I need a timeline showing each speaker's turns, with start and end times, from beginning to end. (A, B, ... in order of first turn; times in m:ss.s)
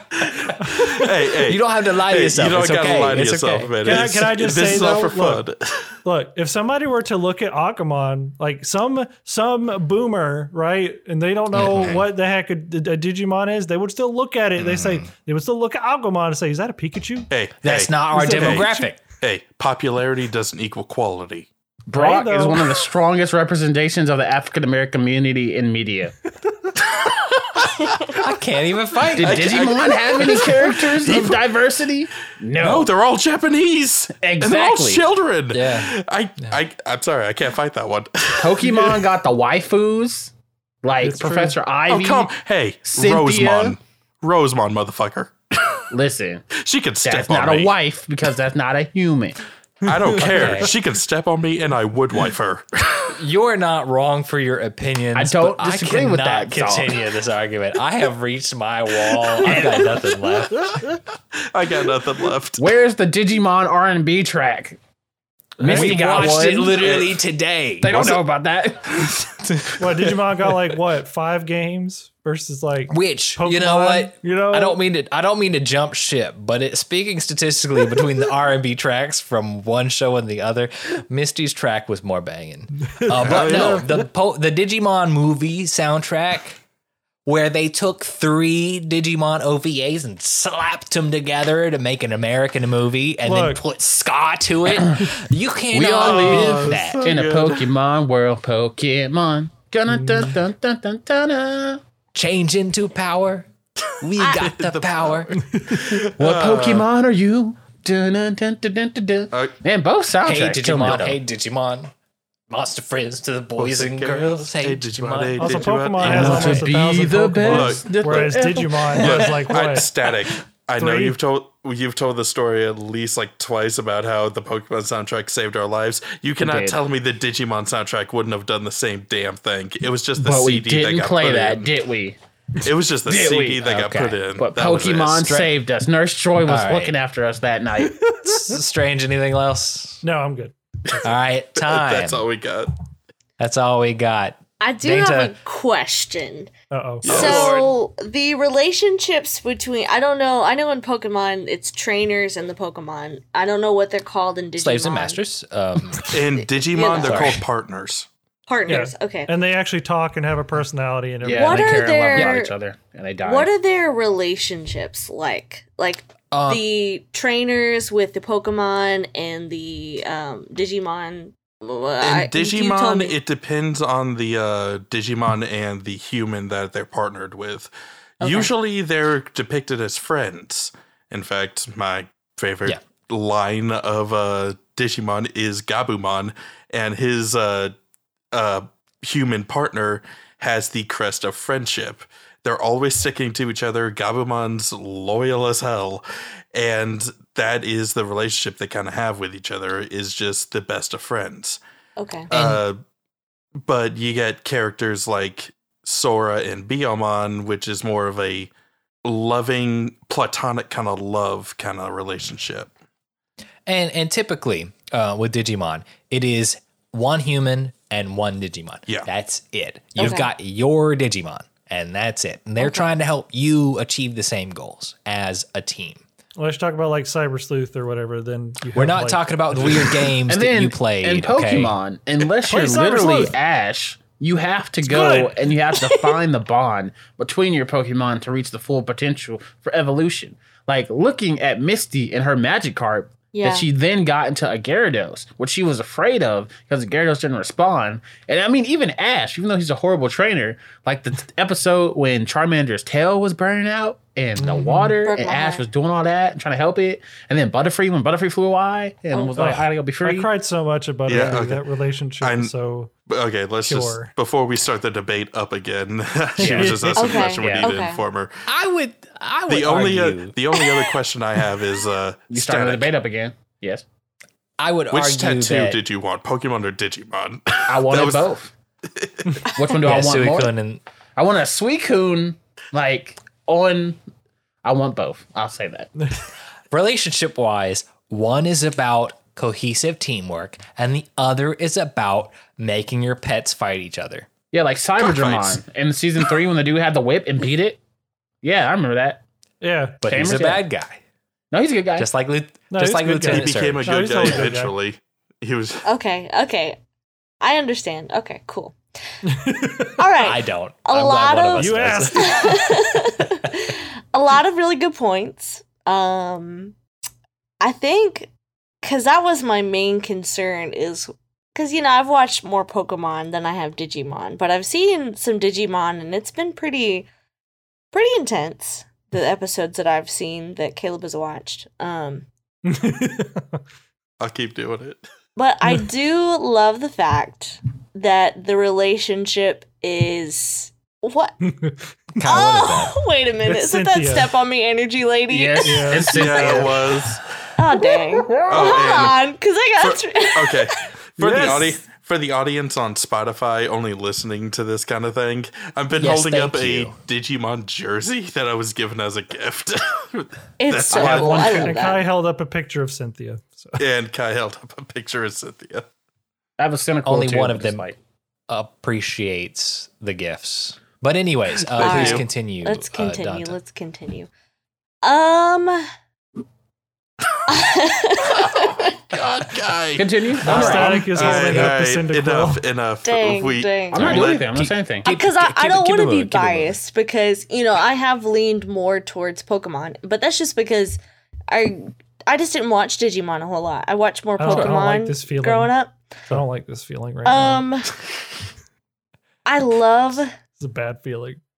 0:00.2-0:05.9 A
0:00.6-0:04.0 B
0:03.8-0:05.4 C
0:06.0-0:17.3 C
0:11.5-0:12.0 B
0:11.6-0:12.0 A
0:14.6-0:15.0 A
0:17.3-0:18.7 A
0:17.6-0:19.0 B
0:18.1-0:18.9 C
0:19.2-0:21.5 A
0:21.9-0:26.1 D
0:21.9-0:22.7 C
0:26.9-0:28.2 A
0:28.1-0:29.7 B
0:29.1-0:32.9 D
0:29.2-0:31.5 A
0:32.6-0:39.1 A
0:34.2-0:35.0 D
0:35.5-0:35.9 B
0:38.4-0:40.3 D
0:40.8-0:42.3 D
0:41.0-0:41.6 C
0:41.9-0:45.8 A
0:42.9-0:43.8 D
0:45.9-0:46.5 D
0:46.6-0:47.7 A
0:47.0-0:49.4 D
0:49.8-0:53.1 A
0:50.2-0:50.7 B
0:53.2-1:00.8 B
0:55.1-0:57.0 D
0:59.4-0:59.8 D
1:01.5-1:02.7 A
1:02.6-1:04.8 D
1:05.6-1:07.0 D
1:05.6-1:08.1 B
1:06.7-1:07.2 A
1:07.8-1:09.7 D
1:07.9-1:08.2 A
1:09.8-1:14.8 C
1:12.9-1:26.6 B
1:23.2-1:24.0 A
1:27.2-1:37.1 B
1:33.2-1:33.6 C
1:35.7-1:41.8 D
1:36.0-1:37.7 A
1:42.1-1:43.5 B
1:44.0-1:45.3 B
1:44.0-1:46.8 A
1:46.2-1:51.2 D
1:49.3-1:49.6 A
1:50.2-1:51.9 B
1:52.5-1:56.7 B
1:53.6-1:56.7 A
1:55.4-1:59.9 C
1:56.0-1:59.2 D
1:57.4-1:58.0 A
1:59.0-2:11.7 A
2:00.8-2:01.2 C
2:06.4-2:06.8 D
2:10.2-2:12.2 D
2:12.6-2:15.5 A
2:13.0-2:18.4 D
2:16.4-2:16.9 B
2:18.0-2:18.5 C
2:18.2-2:20.0 B
2:20.0-2:20.5 C
2:21.0-2:22.2 B
2:21.6-2:22.7 A
2:23.4-2:25.3 B
2:24.6-2:26.5 E
2:26.7-2:27.5 C
2:27.0-2:27.7 A
2:27.0-2:35.2 E
2:34.6-2:36.1 B
2:36.0-2:38.1 A
2:36.3-2:37.4 E
2:37.0-2:37.4 B
2:38.5-2:39.3 E
2:38.7-2:42.3 C
2:41.2-2:43.5 D
2:41.3-2:42.5 E
2:43.2-2:53.2 E
2:46.3-2:46.6 B
2:52.0-3:07.7 A
2:58.2-2:58.5 E
3:08.3-3:21.6 A
3:22.0-3:22.3 E
3:22.3-3:22.8 A
3:22.3-3:22.6 B
3:23.6-3:28.5 A
3:29.0-3:32.7 A
3:33.6-3:46.0 B
3:40.0-3:40.3 E
3:42.6-3:42.9 E
3:46.4-3:49.3 C
3:48.7-3:51.8 B
3:50.2-4:20.3 D
3:52.4-3:53.4 C
3:54.8-3:55.4 C
4:03.3-4:03.7 E
4:14.4-4:14.9 C
4:15.0-4:15.6 E
4:19.1-4:19.5 E
4:19.4-4:22.9 C
4:21.1-4:21.6 A
4:22.2-4:22.5 A
4:23.1-4:28.4 A
4:23.6-4:24.1 C
4:26.4-4:27.2 C
4:26.4-4:27.7 D
4:27.0-4:28.0 E
4:28.4-4:30.4 B
4:29.5-4:32.9 A
4:32.3-4:33.8 D
4:34.6-4:35.8 B
4:34.9-4:38.3 A
4:37.7-4:38.5 D
4:38.9-4:39.3 A
4:39.5-4:40.5 D
4:39.8-4:40.8 B
4:41.2-4:44.0 D
4:44.6-4:45.9 D
4:46.7-4:54.3 B
4:54.5-4:57.8 D
4:55.0-4:55.6 A
4:58.4-4:59.2 D
4:59.6-5:00.0 C
5:00.0-5:01.0 B
5:00.0-5:00.6 D
5:01.5-5:02.1 D
5:02.0-5:04.3 B
5:02.7-5:04.7 C
5:03.2-5:05.8 A
5:05.8-5:06.8 E
5:07.4-5:08.8 E
5:09.3-5:09.9 C
5:10.0-5:16.7 E
5:10.2-5:12.7 B
5:11.6-5:12.7 C
5:17.6-5:18.3 E
5:18.8-5:27.1 E
5:27.9-5:32.3 E
5:32.6-5:33.6 C
5:34.2-5:35.0 A
5:35.4-5:41.4 E
5:41.4-5:41.8 C
5:42.2-5:43.0 B
5:42.2-5:46.7 E
5:43.4-5:44.3 C
5:45.3-5:47.2 D
5:45.6-5:46.3 C
5:46.1-5:47.2 A
5:47.6-5:50.7 E
5:47.7-5:48.8 D
5:48.5-5:49.2 A
5:49.8-6:01.7 A
5:51.2-5:51.7 C
5:56.0-5:57.0 B
6:00.6-6:02.0 E
6:00.9-6:01.8 D
6:01.6-6:03.8 C
6:03.8-6:05.9 A
6:06.6-6:08.0 D
6:07.0-6:07.8 B
6:08.5-6:13.6 B
6:11.7-6:12.2 A
6:11.8-6:14.3 E
6:15.0-6:15.9 E
6:17.5-6:19.0 E
6:18.3-6:24.5 A
6:20.0-6:21.7 D
6:20.4-6:22.6 C
6:23.0-6:24.2 E
6:23.9-6:25.1 D
6:24.5-6:26.8 B
6:25.0-6:36.0 E
6:34.4-6:35.7 C
6:34.5-6:34.8 D
6:36.3-6:37.6 C
6:37.2-6:37.9 E
6:39.4-6:40.3 E
6:40.6-6:41.4 C